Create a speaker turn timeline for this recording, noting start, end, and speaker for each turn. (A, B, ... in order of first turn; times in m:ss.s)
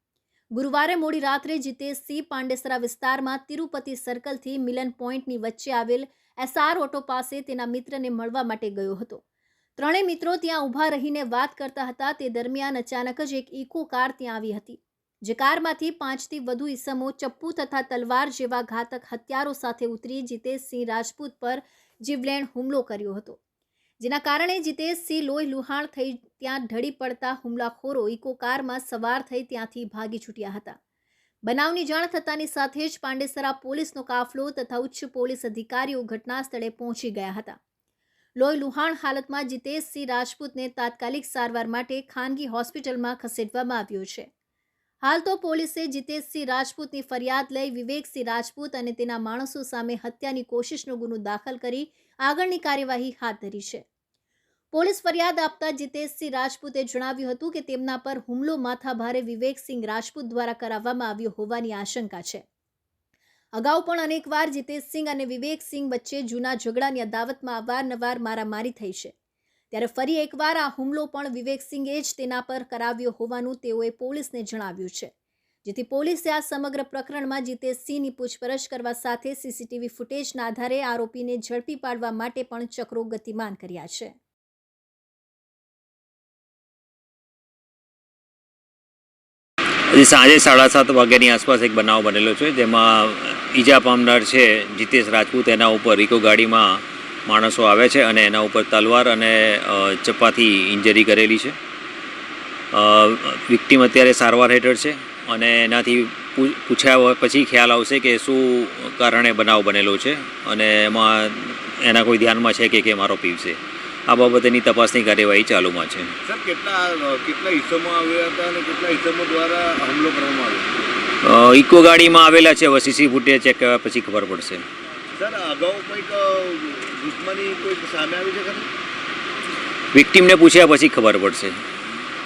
0:00.6-0:09.2 A
0:09.8-0:23.4 A
0:24.0-0:30.8 A
0:31.5-0:37.6 A
0:38.4-0:44.3 A
0:45.0-0:53.8 A
0:54.7-1:02.4 A
1:03.6-1:09.1 A
1:09.7-1:15.1 A
1:15.7-1:24.1 A
1:29.9-1:41.6 B
1:42.7-1:56.1 B
1:56.2-2:00.7 C
2:01.2-2:04.6 B
2:05.2-2:08.7 C
2:09.9-2:11.6 B